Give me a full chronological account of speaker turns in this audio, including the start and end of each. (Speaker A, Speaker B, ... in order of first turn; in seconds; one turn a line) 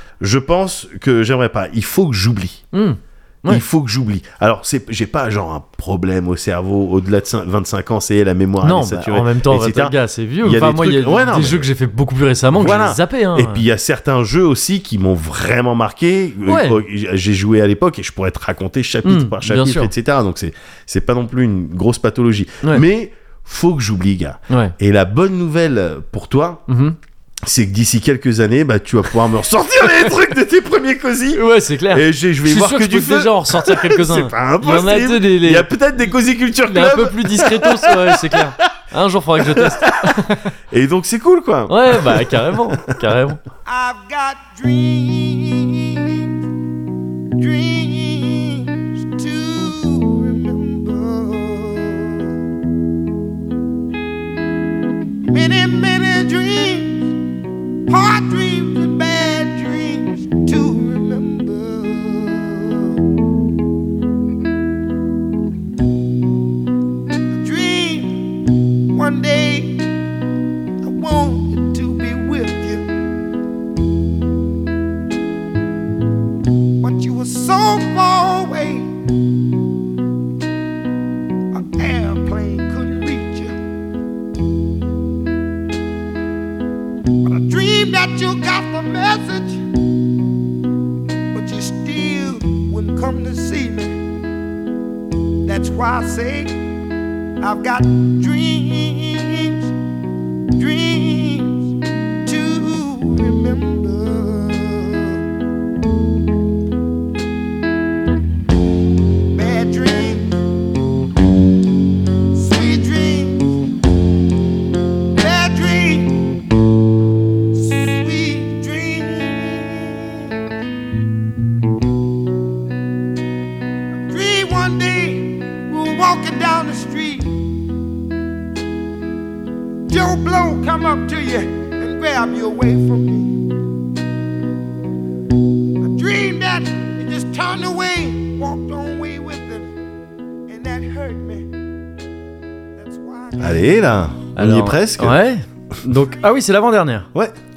Speaker A: 0.2-2.6
Speaker B: 2.7-3.6
Speaker A: 3.5-11.7
Speaker B: 8.6-13.6
Speaker A: 12.5-26.6
Speaker B: 16.5-16.8
Speaker B: 19.1-19.9
Speaker B: 26.7-27.0
Speaker A: 27.4-38.4
Speaker B: 31.4-36.1
Speaker B: 36.7-40.5
Speaker A: 39.4-40.1
Speaker A: 40.7-42.8
Speaker B: 41.7-43.4
Speaker C: 43.7-46.3
Speaker C: 47.4-52.3
Speaker C: 55.3-57.2
Speaker C: 57.9-63.0
Speaker C: 67.3-69.9
Speaker C: 70.8-72.9
Speaker C: 76.8-78.9
Speaker C: 81.5-83.5
Speaker C: 87.3-89.6
Speaker C: 91.3-94.0
Speaker C: 95.5-96.6
Speaker C: 97.4-99.7
Speaker C: 100.6-101.7
Speaker C: 102.2-105.2
Speaker C: 109.3-110.4
Speaker C: 112.3-113.6
Speaker C: 115.1-116.4
Speaker C: 117.5-120.2
Speaker C: 124.1-127.4
Speaker C: 129.9-133.5
Speaker C: 135.8-139.7
Speaker C: 140.5-141.5
Speaker C: 142.8-143.7
Speaker A: 143.4-145.2
Speaker B: 144.4-147.1